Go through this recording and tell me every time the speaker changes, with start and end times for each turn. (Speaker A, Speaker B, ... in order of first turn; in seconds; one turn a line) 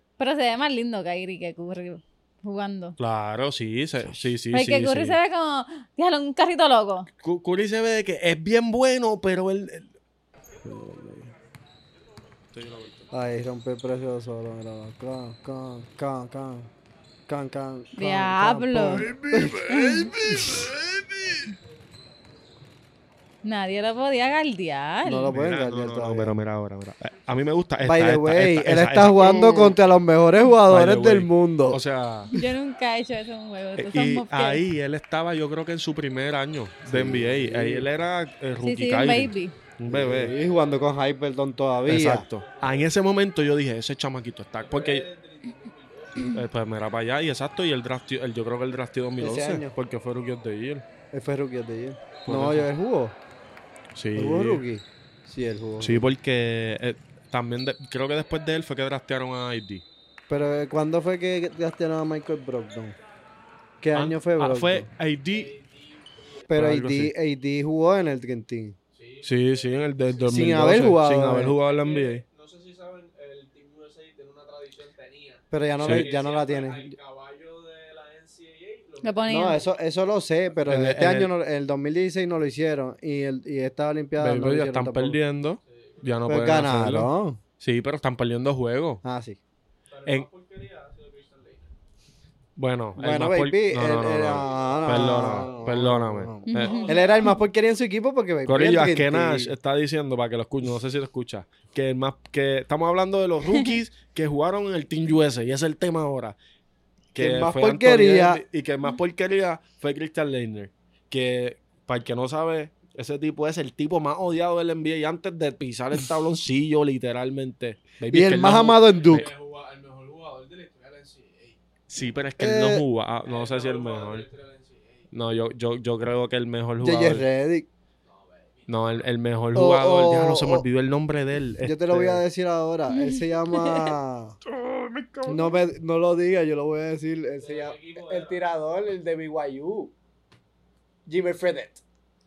Speaker A: 0.2-3.0
Speaker B: 3.0-5.2
Speaker A: 4.5-7.1
Speaker B: 7.2-9.9
Speaker C: 10.7-11.3
Speaker B: 12.5-13.1
Speaker C: 13.1-16.7
Speaker C: 17.3-19.7
Speaker A: 18.0-19.1
Speaker B: 18.9-21.5
Speaker A: 19.7-20.1
Speaker C: 20.3-20.6
Speaker A: 23.4-25.3
Speaker C: 25.0-26.3
Speaker B: 25.3-29.7
Speaker C: 27.8-31.8
Speaker A: 29.4-29.7
Speaker B: 30.6-32.3
Speaker A: 32.3-34.6
Speaker B: 33.8-40.4
Speaker C: 36.9-37.9
Speaker A: 38.6-39.6
Speaker C: 39.9-42.3
Speaker B: 41.9-45.1
Speaker D: 44.6-46.4
Speaker B: 46.3-50.9
Speaker C: 49.2-49.7
Speaker C: 51.1-53.2
Speaker B: 52.2-52.7
Speaker B: 54.0-54.6
Speaker C: 54.1-56.0
Speaker B: 55.8-59.8
Speaker C: 60.3-63.0
Speaker C: 63.8-64.9
Speaker B: 63.9-65.6
Speaker D: 65.3-66.5
Speaker C: 66.5-68.8
Speaker B: 66.5-67.1
Speaker D: 69.0-69.7
Speaker B: 69.2-72.2
Speaker C: 70.3-71.5
Speaker D: 71.7-79.5
Speaker C: 75.5-77.0
Speaker B: 75.8-76.1
Speaker A: 79.0-79.7
Speaker C: 79.3-85.2
Speaker B: 80.7-81.3
Speaker B: 84.2-89.0
Speaker D: 85.7-86.5
Speaker C: 86.3-87.4
Speaker C: 89.0-89.4
Speaker D: 89.9-91.7
Speaker B: 92.6-96.8
Speaker C: 93.0-99.5
Speaker D: 94.2-95.8
Speaker A: 96.5-97.0
Speaker D: 96.6-97.4
Speaker B: 98.5-106.4
Speaker B: 107.1-119.3
Speaker C: 107.2-108.4
Speaker C: 118.1-119.3
Speaker D: 119.0-121.6
Speaker B: 121.9-124.3
Speaker C: 122.4-122.8
Speaker D: 123.2-125.1
Speaker B: 125.1-127.2
Speaker C: 126.8-127.7
Speaker D: 128.1-129.1
Speaker B: 128.7-132.2
Speaker C: 129.5-130.7
Speaker C: 131.6-134.4
Speaker A: 132.9-133.7
Speaker B: 134.4-135.6
Speaker C: 135.3-139.9
Speaker D: 137.4-138.4
Speaker C: 141.1-141.8